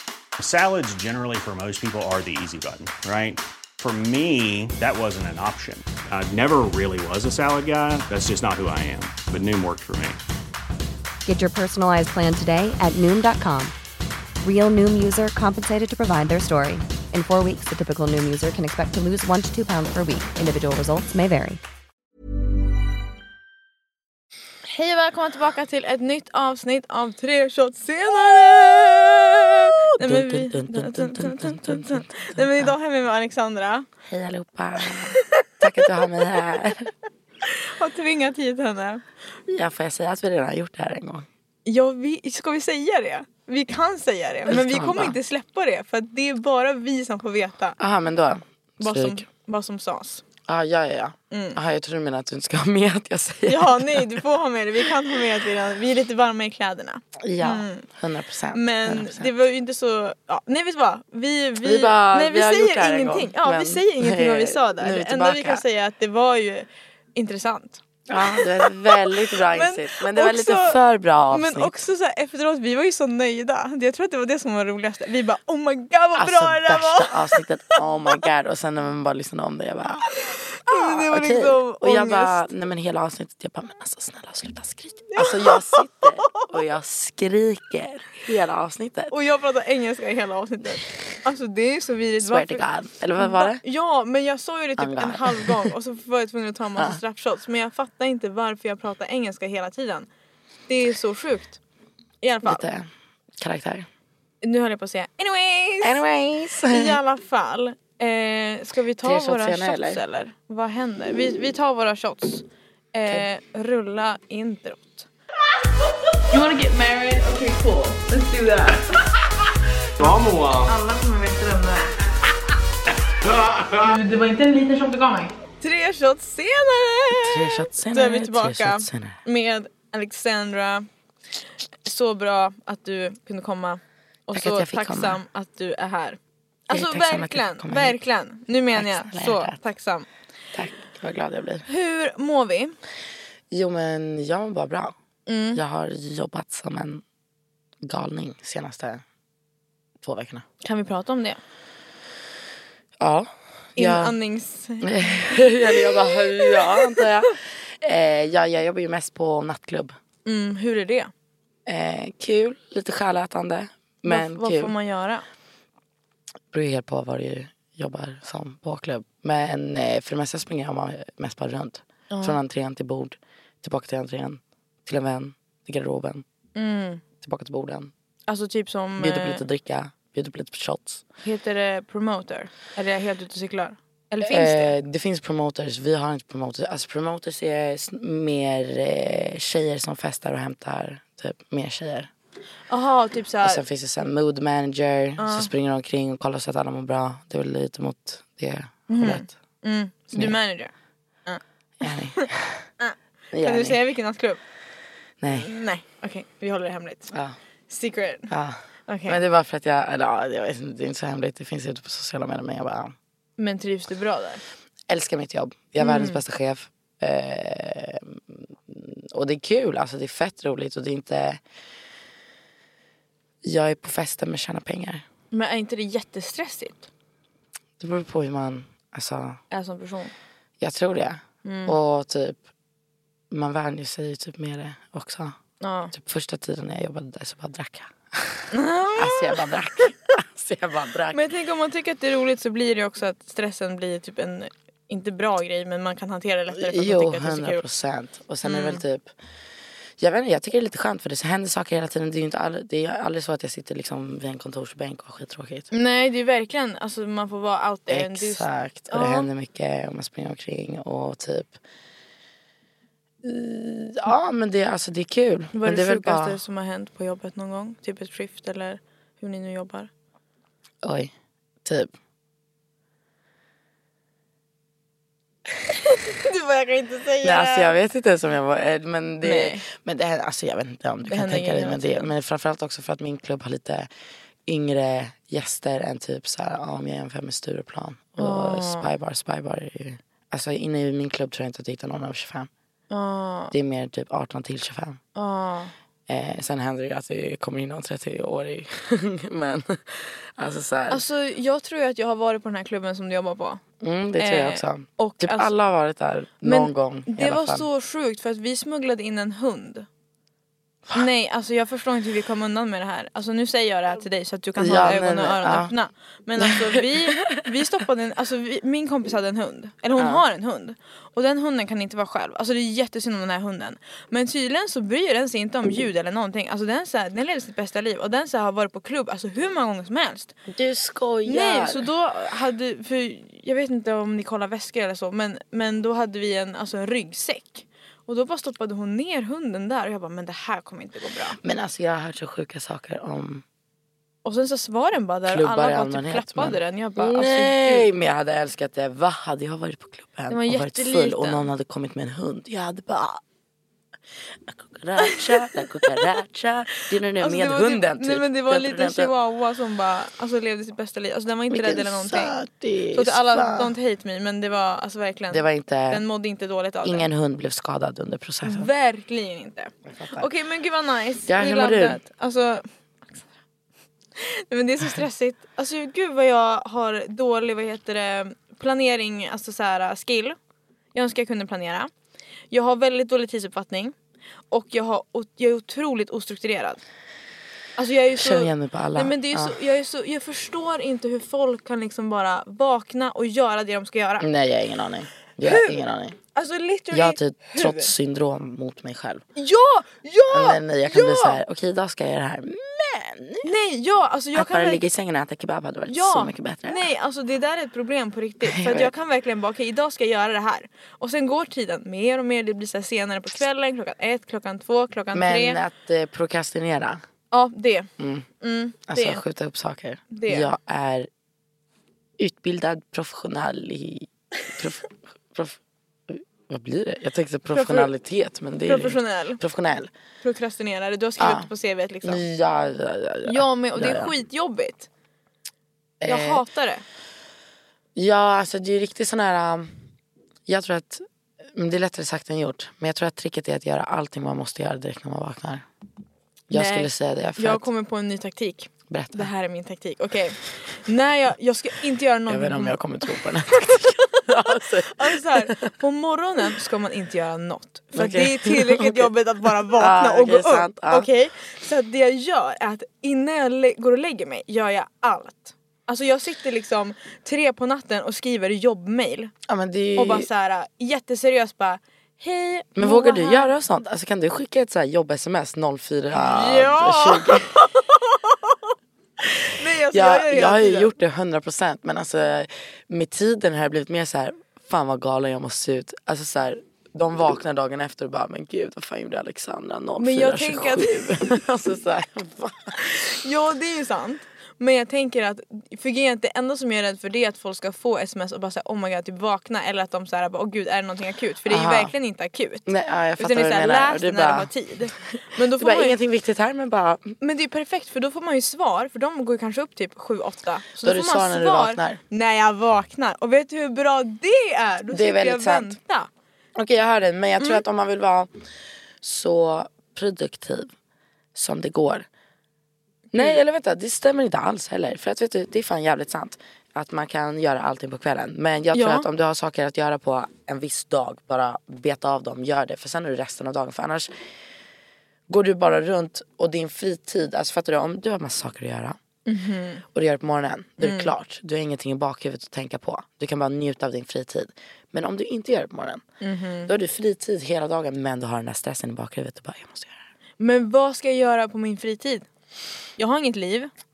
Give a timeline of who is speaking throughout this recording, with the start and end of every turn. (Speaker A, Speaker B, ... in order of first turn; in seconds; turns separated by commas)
Speaker A: 0.4-10.2, Speaker B: 11.3-13.8, Speaker B: 14.4-21.6, Speaker C: 24.7-33.9, Speaker D: 30.0-32.7, Speaker D: 34.1-36.9, Speaker C: 34.8-36.4, Speaker C: 37.5-39.0, Speaker D: 39.5-41.3, Speaker C: 41.6-47.8, Speaker D: 44.5-45.2, Speaker D: 47.8-49.2, Speaker C: 48.8-50.2, Speaker D: 50.5-54.1, Speaker C: 51.3-51.6, Speaker C: 53.5-57.9, Speaker D: 57.2-59.3, Speaker C: 58.5-77.8, Speaker D: 61.6-65.6, Speaker D: 68.1-71.8, Speaker D: 76.2-80.1, Speaker C: 80.3-82.5, Speaker D: 80.7-89.1, Speaker C: 85.1-86.5, Speaker C: 89.1-92.6, Speaker D: 92.2-93.6, Speaker C: 93.2-100.1, Speaker D: 94.8-95.7, Speaker C: 100.7-101.6, Speaker C: 102.2-102.6, Speaker D: 102.4-103.9, Speaker C: 104.4-106.0, Speaker D: 105.8-107.0, Speaker C: 106.7-115.1, Speaker D: 109.0-110.0, Speaker C: 116.2-119.0, Speaker A: 120.0-120.7, Speaker C: 120.0-121.9, Speaker A: 123.3-123.8, Speaker C: 123.8-130.9, Speaker D: 127.2-129.2, Speaker C: 131.9-140.1, Speaker D: 134.3-135.2, Speaker D: 136.7-138.0, Speaker D: 138.7-139.6, Speaker D: 140.5-141.7, Speaker C: 141.7-142.8, Speaker D: 143.5-144.9, Speaker C: 145.3-145.6, Speaker D: 145.6-147.0, Speaker D: 147.8-149.0, Speaker D: 150.0-150.4, Speaker C: 150.6-151.4, Speaker D: 153.0-154.2, Speaker C: 153.8-157.2, Speaker D: 154.8-159.9, Speaker C: 160.3-161.1, Speaker D: 161.7-164.7, Speaker C: 164.1-165.2, Speaker D: 166.5-176.2, Speaker C: 172.1-172.4, Speaker C: 176.6-177.0, Speaker D: 177.2-177.9, Speaker C: 178.3-179.4, Speaker D: 179.0-181.1, Speaker C: 181.2-184.7, Speaker D: 184.2-192.1, Speaker C: 192.7-193.6, Speaker D: 193.4-199.3, Speaker C: 195.2-195.5, Speaker C: 198.9-200.7, Speaker D: 201.8-202.7, Speaker C: 202.8-204.4, Speaker D: 203.3-203.8, Speaker D: 205.2-205.5, Speaker C: 205.3-207.1, Speaker D: 207.1-207.4, Speaker C: 207.7-208.3, Speaker D: 208.3-212.9, Speaker C: 208.9-209.2, Speaker C: 213.4-214.4, Speaker D: 214.9-221.4, Speaker C: 215.8-216.2, Speaker D: 223.4-225.1, Speaker C: 225.3-226.9, Speaker D: 227.8-229.4, Speaker C: 229.5-230.1, Speaker D: 230.6-232.4, Speaker C: 231.4-231.8, Speaker D: 233.3-235.4, Speaker C: 235.6-235.9, Speaker D: 235.9-241.3, Speaker C: 238.5-239.5, Speaker C: 241.1-247.7, Speaker D: 246.5-249.1, Speaker C: 248.4-248.8, Speaker D: 250.0-255.7, Speaker C: 255.7-259.3, Speaker D: 257.9-261.6, Speaker D: 263.2-266.4, Speaker C: 265.5-269.9, Speaker D: 270.8-271.1, Speaker D: 271.6-271.9, Speaker C: 275.9-277.8, Speaker D: 277.2-283.9, Speaker C: 279.2-279.6, Speaker C: 281.1-282.1, Speaker D: 284.5-292.5, Speaker C: 288.2-288.9, Speaker C: 292.9-293.6, Speaker D: 293.5-295.0, Speaker C: 295.1-295.7, Speaker D: 296.1-301.0, Speaker C: 300.9-303.6, Speaker D: 303.8-307.6, Speaker C: 304.2-305.5, Speaker C: 306.4-309.9, Speaker C: 310.9-330.4, Speaker D: 314.6-315.7, Speaker D: 316.4-317.7, Speaker D: 320.0-320.2, Speaker D: 330.5-331.9, Speaker C: 331.2-341.4, Speaker D: 341.4-343.4, Speaker C: 344.2-347.9, Speaker D: 345.3-353.2, Speaker C: 350.3-351.5, Speaker D: 354.5-359.1, Speaker C: 355.0-356.0, Speaker C: 357.2-362.4, Speaker D: 361.5-363.7, Speaker C: 362.9-367.1, Speaker D: 365.3-366.0, Speaker D: 366.8-368.7, Speaker C: 368.4-372.6, Speaker D: 369.9-370.3, Speaker D: 371.3-372.0, Speaker C: 374.2-380.4, Speaker C: 380.9-381.9, Speaker C: 382.5-383.9, Speaker C: 384.5-386.8, Speaker C: 387.8-394.3, Speaker D: 388.1-389.6, Speaker D: 394.2-396.2, Speaker C: 395.4-395.8, Speaker C: 396.3-397.9, Speaker D: 396.9-399.2, Speaker C: 399.4-401.4, Speaker D: 400.3-403.5, Speaker C: 403.4-404.8, Speaker D: 404.3-406.9, Speaker C: 405.9-415.6, Speaker D: 408.4-408.9, Speaker D: 415.1-417.0, Speaker C: 417.3-419.2, Speaker D: 418.0-418.3, Speaker D: 418.9-421.1, Speaker C: 420.1-420.5, Speaker D: 422.2-429.9, Speaker C: 427.5-427.9, Speaker C: 428.6-429.4, Speaker C: 430.2-432.2, Speaker D: 431.2-431.5, Speaker D: 432.0-434.1, Speaker C: 433.3-434.9, Speaker D: 436.0-436.5, Speaker C: 436.1-436.8, Speaker D: 438.0-439.7, Speaker D: 440.5-445.7, Speaker D: 446.5-447.7, Speaker C: 446.5-452.8, Speaker D: 448.9-449.3, Speaker D: 452.3-455.7, Speaker C: 453.8-469.3, Speaker D: 457.9-459.1, Speaker D: 459.7-461.1, Speaker D: 469.5-470.3, Speaker C: 470.0-473.5, Speaker D: 472.8-477.5, Speaker C: 476.1-478.7, Speaker C: 479.5-480.9, Speaker D: 479.9-493.1, Speaker C: 490.0-491.3, Speaker C: 492.8-506.0, Speaker D: 501.5-501.9, Speaker D: 502.7-504.5, Speaker D: 505.1-507.1, Speaker C: 507.2-516.1, Speaker D: 510.8-512.0, Speaker D: 514.9-515.8, Speaker D: 516.5-518.4, Speaker D: 519.0-520.7, Speaker D: 521.4-522.1, Speaker D: 523.1-534.1, Speaker C: 528.7-529.1, Speaker D: 535.3-539.0, Speaker C: 539.3-539.8, Speaker D: 539.9-546.0, Speaker C: 540.8-541.1, Speaker C: 546.2-546.7, Speaker D: 546.7-550.0, Speaker C: 550.4-552.3, Speaker C: 553.0-553.7